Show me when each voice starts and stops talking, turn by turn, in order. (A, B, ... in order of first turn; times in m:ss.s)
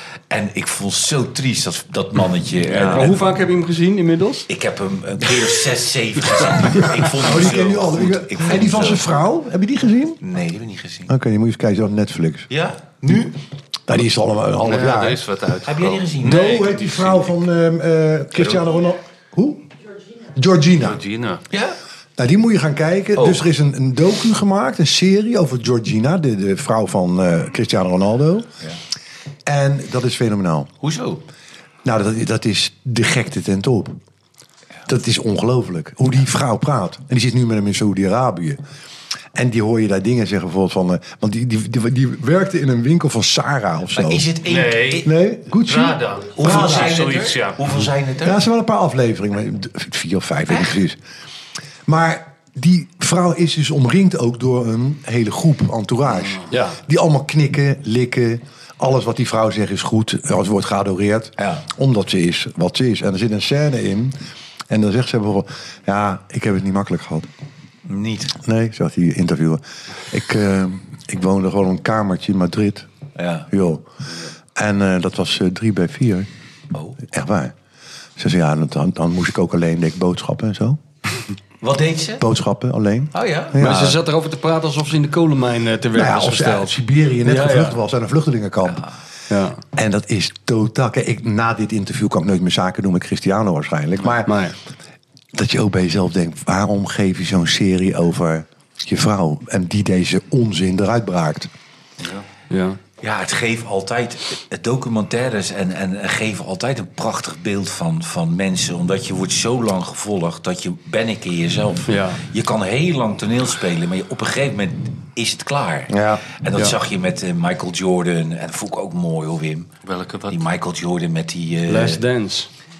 0:00.3-0:03.4 A
0:02.6-0:04.5 B
0:02.7-0:03.1 C
0:04.5-0:09.2 A
0:07.0-0:10.2 D
0:10.2-0:11.1 A
0:11.1-0:12.5 D
0:12.5-0:13.4 A
0:13.9-0:15.2 D
0:14.6-0:16.0 C
0:15.6-0:17.4 A
0:16.2-0:19.7 D
0:18.4-0:18.6 A
0:20.2-0:21.0 D
0:20.8-0:21.4 C
0:21.5-0:21.8 A
0:22.2-0:28.5 D
0:23.1-0:23.4 A
0:29.4-0:30.7 D
0:30.8-0:31.2 A
0:31.8-0:34.0 D
0:34.9-0:38.6 D
0:39.3-0:44.3 D
0:43.9-0:45.1 A
0:44.4-0:45.1 C
0:45.0-0:47.0 D
0:45.6-0:47.9 C
0:46.4-0:48.4 A
0:48.2-0:51.0 D
0:50.5-0:50.8 A
0:51.8-1:04.1 D
0:56.2-0:56.4 C
0:56.5-0:56.8 B
1:01.4-1:01.6 A
1:04.7-1:07.3 D
1:07.8-1:08.4 A
1:08.4-1:12.9 D
1:13.2-1:13.5 A
1:13.5-1:13.8 D
1:14.5-1:16.3 D
1:16.7-1:17.0 A
1:17.0-1:17.5 D
1:18.2-1:20.8 D
1:21.6-1:22.2 A
1:22.2-1:24.0 D
1:23.1-1:23.6 A
1:23.6-1:27.8 B
1:25.9-1:28.8 D
1:29.3-1:29.6 B
1:29.7-1:34.3 D
1:34.2-1:34.6 B
1:35.3-1:41.5 D
1:42.0-1:42.2 C
1:42.5-1:42.8 B
1:43.0-1:59.7 A
1:51.9-1:52.2 B
1:55.9-1:56.2 D
1:59.8-2:00.4 C
2:00.3-2:02.0 A
2:01.7-2:02.5 B